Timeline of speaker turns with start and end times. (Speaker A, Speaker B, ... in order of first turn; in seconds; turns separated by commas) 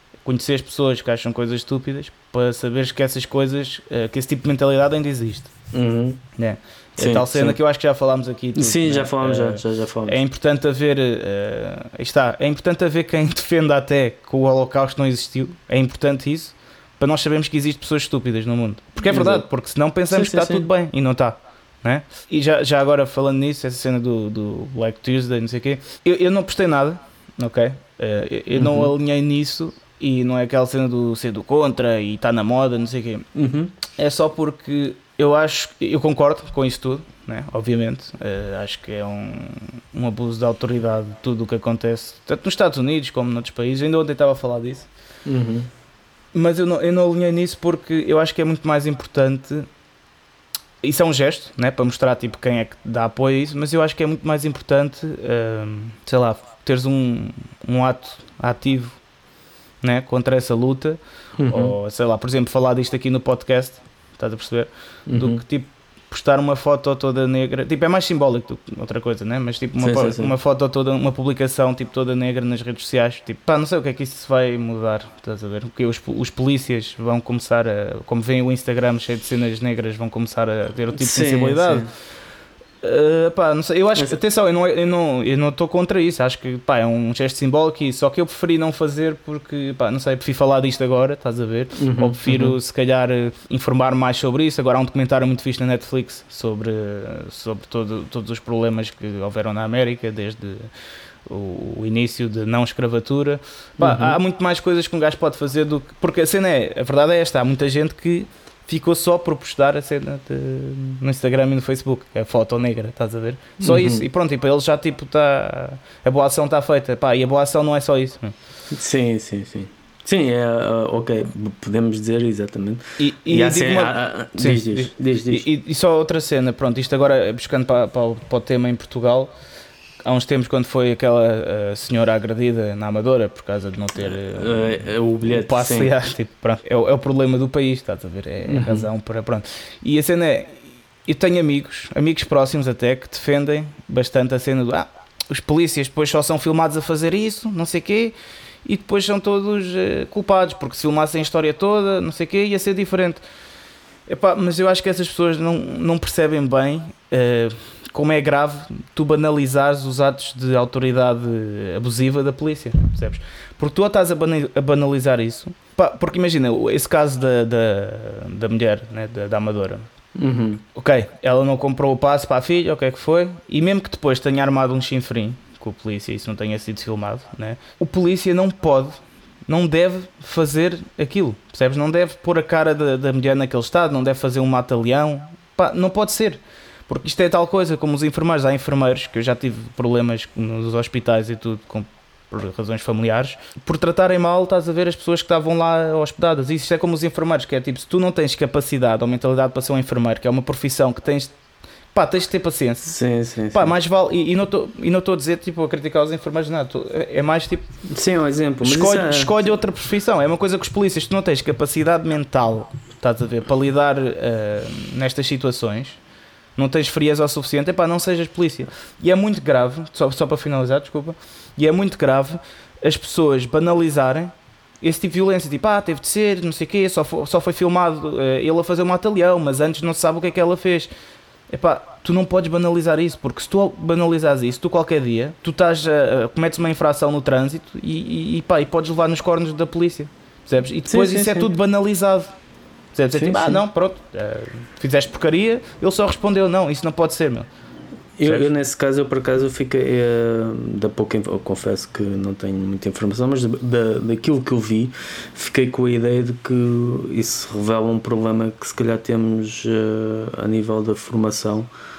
Speaker A: 0.2-5.5, Speaker B: 5.7-6.2, Speaker A: 6.4-33.3, Speaker B: 7.0-7.6, Speaker B: 8.6-10.2, Speaker B: 19.0-19.5, Speaker B: 20.1-20.7, Speaker B: 28.6-28.9, Speaker B: 33.4-33.7, Speaker A: 34.0-44.9, Speaker B: 45.3-45.7, Speaker A: 46.3-49.7, Speaker A: 50.8-59.0, Speaker A: 59.8-81.8, Speaker B: 61.4-61.8, Speaker B: 65.1-65.4, Speaker B: 69.8-70.3, Speaker B: 80.9-81.9, Speaker A: 82.8-100.7, Speaker B: 91.8-92.6, Speaker A: 101.3-118.3, Speaker B: 103.8-104.2, Speaker B: 113.6-114.1, Speaker B: 118.7-125.5, Speaker A: 123.0-129.3, Speaker A: 130.0-148.1, Speaker B: 134.0-135.9, Speaker B: 138.5-138.9, Speaker A: 148.7-153.2, Speaker A: 154.1-169.9, Speaker B: 170.2-170.6, Speaker A: 170.8-201.3, Speaker A: 201.9-203.0, Speaker B: 202.9-203.7, Speaker A: 203.5-207.7, Speaker B: 207.9-209.3, Speaker A: 208.6-216.0, Speaker A: 216.6-230.9, Speaker A: 231.5-242.3, Speaker B: 240.9-241.5, Speaker A: 242.9-247.5, Speaker B: 243.1-243.6, Speaker B: 248.2-261.7